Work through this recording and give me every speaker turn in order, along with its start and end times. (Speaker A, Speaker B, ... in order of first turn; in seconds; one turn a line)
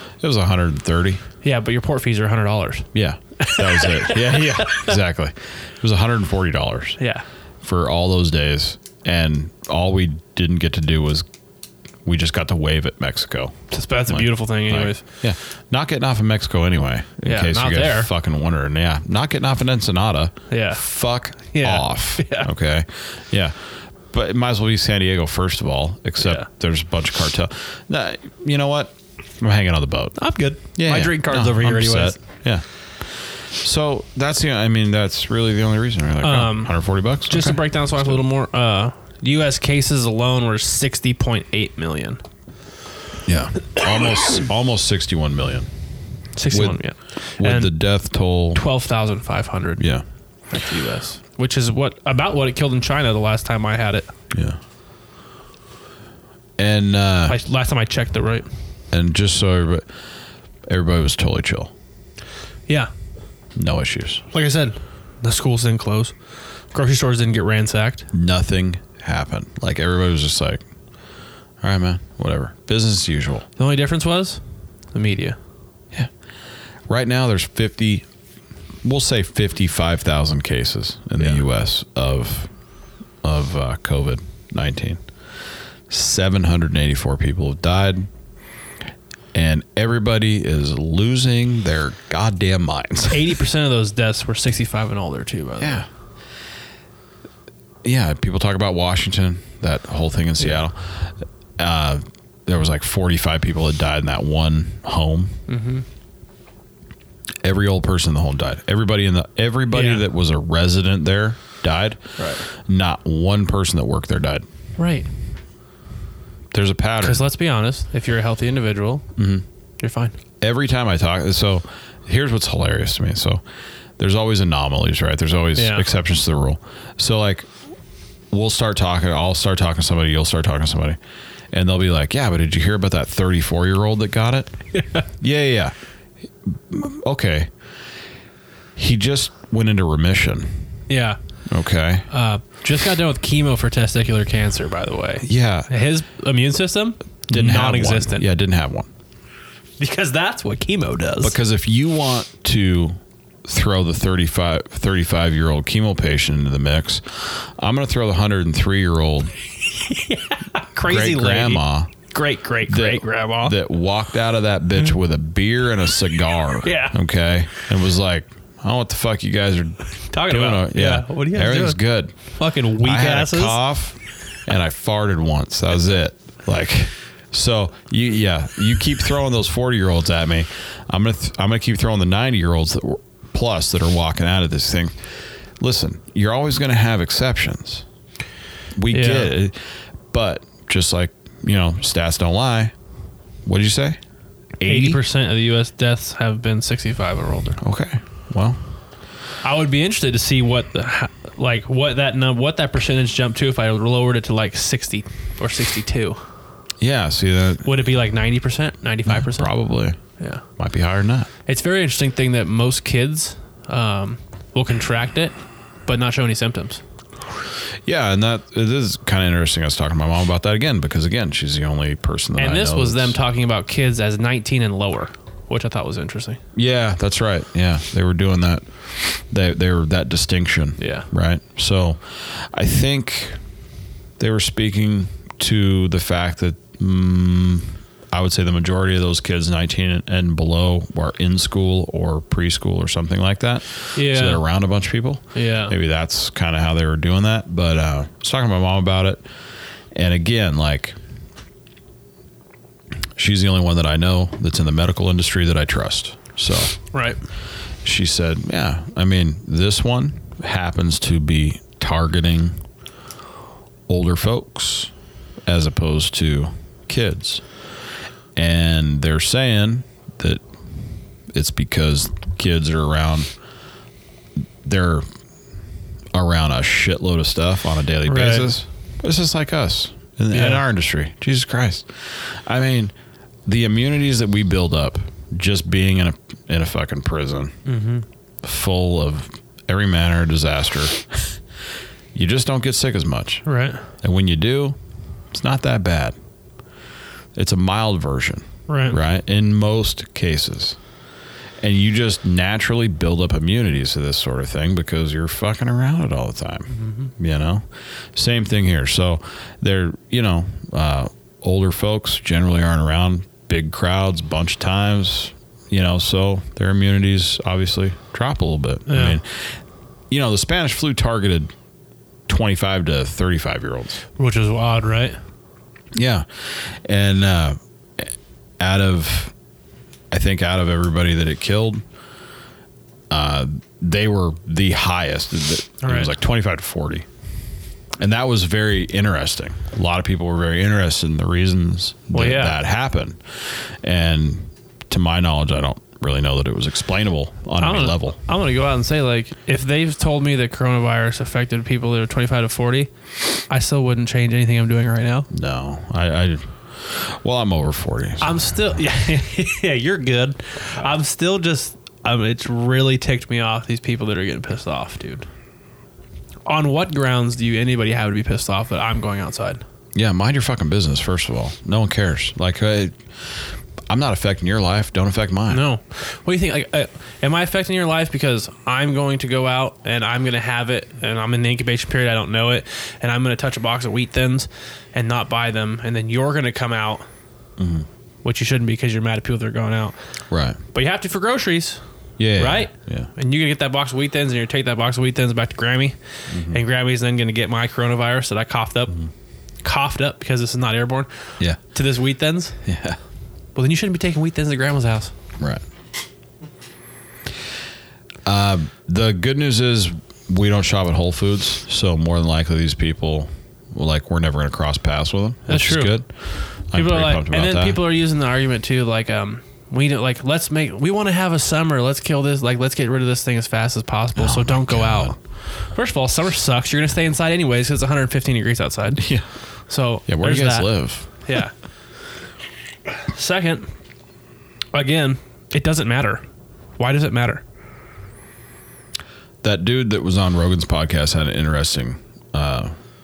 Speaker A: 0.2-1.2
Speaker B: 1.4-4.9
Speaker A: 2.9-7.0
Speaker B: 7.0-7.2
Speaker A: 7.6-11.3
Speaker A: 12.1-30.2
Speaker B: 13.7-15.0
Speaker B: 17.2-18.1
Speaker B: 20.5-20.8
Speaker B: 21.4-22.5
Speaker B: 26.2-26.5
Speaker B: 30.2-32.2
Speaker A: 30.7-37.6
Speaker B: 36.2-36.8
Speaker B: 37.3-42.2
Speaker A: 43.2-45.7
Speaker B: 46.4-47.7
Speaker A: 46.5-46.8
Speaker A: 47.4-48.6
Speaker B: 48.5-49.9
Speaker A: 49.8-50.0
Speaker B: 50.5-54.1
Speaker A: 54.3-54.6
Speaker A: 56.6-57.4
Speaker B: 57.3-58.5
Speaker A: 58.9-59.9
Speaker A: 60.7-61.7
Speaker A: 63.5-64.2
Speaker B: 64.3-66.2
Speaker B: 66.7-68.1
Speaker A: 68.1-70.6
Speaker A: 71.6-73.5
Speaker B: 73.6-74.4
Speaker B: 74.9-75.4
Speaker A: 76.9-78.1
Speaker A: 78.8-82.5
Speaker A: 83.2-85.0
Speaker A: 85.9-88.1
Speaker A: 89.3-93.3
Speaker B: 93.1-95.9
Speaker A: 95.6-95.9
Speaker A: 97.8-105.4
Speaker B: 105.5-105.8
Speaker A: 107.4-114.5
Speaker B: 109.7-110.0
Speaker B: 112.2-112.4
Speaker B: 114.8-115.1
Speaker A: 116.5-117.2
Speaker B: 117.0-119.1
Speaker A: 119.2-119.4
Speaker B: 119.8-120.2
Speaker A: 120.4-123.4
Speaker A: 124.0-127.5
Speaker B: 125.6-125.8
Speaker A: 128.3-131.0
Speaker A: 131.5-134.6
Speaker B: 134.8-135.0
Speaker A: 135.2-135.7
Speaker A: 136.4-137.5
Speaker A: 138.8-140.7
Speaker B: 140.9-141.2
Speaker A: 141.5-142.1
Speaker B: 142.1-148.3
Speaker A: 145.2-145.7
Speaker A: 147.3-148.9
Speaker B: 149.8-151.4
Speaker A: 151.2-159.3
Speaker B: 159.7-163.6
Speaker A: 160.8-161.9
Speaker A: 162.7-172.2
Speaker B: 166.6-166.9
Speaker B: 170.1-173.6
Speaker A: 172.8-185.0
Speaker A: 185.6-187.8
Speaker A: 188.8-189.6
Speaker B: 188.9-189.3
Speaker A: 190.1-192.7
Speaker A: 193.5-194.0
Speaker A: 194.6-195.0
Speaker B: 194.7-197.6
Speaker A: 197.6-198.6
Speaker B: 199.4-206.2
Speaker A: 206.8-207.7
Speaker B: 207.7-209.5
Speaker A: 209.1-210.0
Speaker A: 210.6-211.3
Speaker B: 211.5-216.8
Speaker A: 217.8-223.2
Speaker B: 222.4-226.4
Speaker A: 226.6-233.4
Speaker B: 230.8-231.1
Speaker A: 234.2-249.3
Speaker B: 243.9-244.4
Speaker B: 245.3-245.7
Speaker A: 249.9-251.0
Speaker A: 253.2-256.8
Speaker B: 256.9-257.2
Speaker A: 257.8-262.6
Speaker A: 263.9-264.9
Speaker A: 265.4-267.5
Speaker A: 268.4-270.4
Speaker A: 271.3-273.3
Speaker A: 274.6-275.1
Speaker A: 276.1-282.9
Speaker B: 278.1-278.5
Speaker B: 280.3-280.6
Speaker A: 283.5-287.6
Speaker B: 287.7-288.1
Speaker A: 288.4-291.4
Speaker A: 292.1-293.4
Speaker B: 293.4-293.8
Speaker A: 294.0-294.8
Speaker A: 295.3-296.2
Speaker A: 297.4-300.8
Speaker B: 298.7-299.0
Speaker A: 301.6-321.5
Speaker B: 306.7-307.1
Speaker B: 318.9-319.2
Speaker A: 322.3-324.0
Speaker B: 324.2-325.2
Speaker A: 325.9-329.3
Speaker A: 330.1-331.8
Speaker A: 333.1-337.1
Speaker B: 335.8-336.1
Speaker A: 338.0-348.2
Speaker B: 342.1-342.6
Speaker B: 347.6-355.3
Speaker A: 355.3-358.4
Speaker B: 358.2-365.3
Speaker B: 366.5-369.6
Speaker A: 369.9-375.6
Speaker B: 375.5-387.1
Speaker A: 387.6-387.9
Speaker B: 388.2-390.0
Speaker A: 390.3-390.6
Speaker B: 390.7-391.8
Speaker A: 392.2-393.1
Speaker B: 392.4-396.0
Speaker A: 396.3-396.6
Speaker B: 396.5-399.0
Speaker B: 399.6-402.6
Speaker A: 402.6-403.0
Speaker B: 403.6-405.1
Speaker A: 408.2-417.8
Speaker B: 415.5-416.0
Speaker B: 416.7-429.1
Speaker A: 424.2-425.2
Speaker A: 429.0-429.3
Speaker B: 429.7-431.5
Speaker A: 430.1-431.1
Speaker B: 433.1-433.7
Speaker B: 434.7-436.2
Speaker B: 436.8-437.4
Speaker A: 439.4-442.8